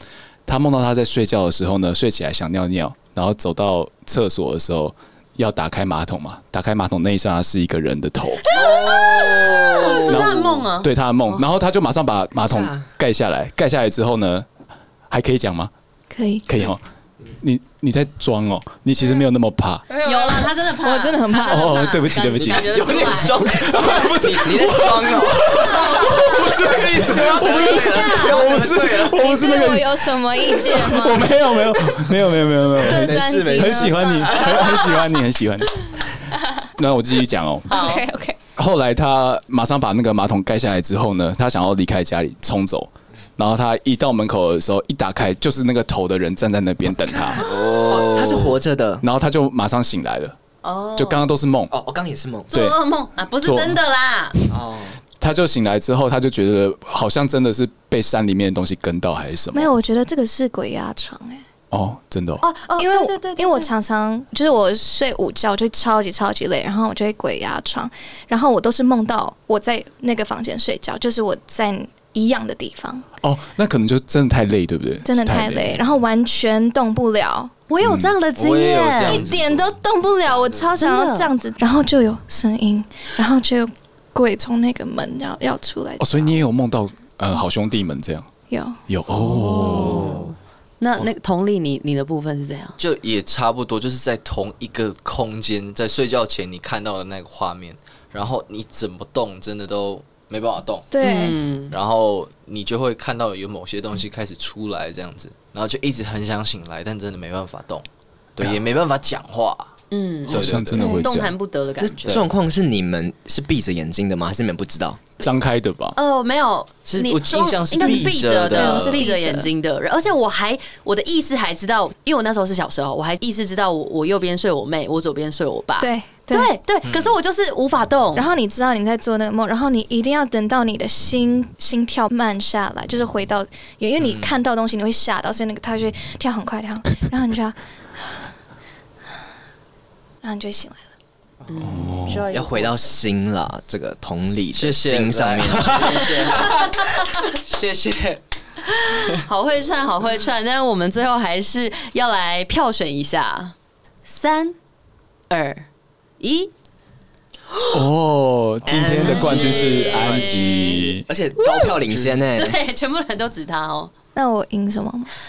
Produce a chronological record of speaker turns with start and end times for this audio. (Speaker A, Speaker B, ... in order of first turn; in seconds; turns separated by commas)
Speaker A: 0.5-8.4, Speaker B: 8.4-11.4, Speaker C: 8.9-9.6, Speaker A: 10.0-14.5, Speaker D: 12.4-12.9, Speaker A: 15.1-15.7, Speaker E: 16.1-16.5, Speaker A: 16.5-16.8, Speaker A: 17.4-19.9, Speaker E: 19.9-21.8, Speaker B: 20.0-23.9, Speaker A: 21.5-36.2, Speaker D: 22.4-29.3, Speaker E: 27.5-28.4, Speaker B: 27.6-28.3, Speaker E: 29.1-32.0, Speaker E: 32.8-34.9, Speaker D: 32.8-34.9, Speaker A: 36.8-37.7, Speaker B: 37.7-38.1, Speaker E: 37.7-38.4, Speaker A: 38.6-47.4, Speaker D: 47.2-49.0, Speaker C: 47.4-48.6, Speaker A: 49.0-50.4, Speaker B: 50.6-51.3, Speaker A: 51.0-51.7, Speaker D: 51.7-52.5, Speaker A: 52.5-52.8, Speaker B: 52.5-54.4, Speaker A: 53.4-53.8, Speaker D: 54.5-55.0, Speaker A: 55.2-59.7, Speaker E: 59.5-61.5, Speaker A: 61.7-62.4, Speaker B: 62.4-63.7, Speaker E: 62.8-73.1, Speaker A: 73.2-75.8, Speaker E: 75.1-77.5, Speaker B: 77.7-79.3, Speaker A: 77.8-78.2, Speaker C: 78.3-80.7, Speaker E: 79.1-86.5, Speaker B: 80.8-81.3, Speaker A: 86.0-88.3, Speaker E: 88.5-88.8, Speaker A: 88.9-90.2, Speaker B: 89.2-92.8, Speaker C: 89.6-90.3, Speaker C: 92.8-107.8, Speaker E: 100.9-101.4, Speaker B: 101.0-101.8, Speaker C: 108.4-109.7, Speaker B: 109.9-112.2, Speaker C: 110.3-110.9, Speaker A: 110.3-111.3, Speaker E: 110.8-111.1, Speaker D: 111.8-115.0, Speaker A: 115.2-116.0, Speaker B: 116.0-128.3, Speaker C: 116.9-119.1, Speaker A: 117.8-118.2, Speaker E: 118.5-119.5, Speaker E: 125.8-126.5, Speaker C: 126.9-127.1, Speaker E: 128.2-138.2, Speaker C: 134.0-134.3, Speaker E: 140.2-140.8, Speaker B: 141.5-142.9, Speaker A: 141.6-142.2, Speaker D: 142.2-146.2, Speaker C: 144.5-148.2, Speaker B: 145.7-147.0, Speaker B: 148.7-154.6, Speaker B: 155.3-155.7, Speaker B: 156.2-156.5, Speaker A: 157.7-161.1, Speaker B: 158.7-160.9, Speaker C: 158.7-160.4, Speaker D: 161.1-162.6, Speaker B: 161.4-161.7, Speaker C: 161.9-162.2, Speaker B: 162.3-163.9, Speaker E: 164.2-165.1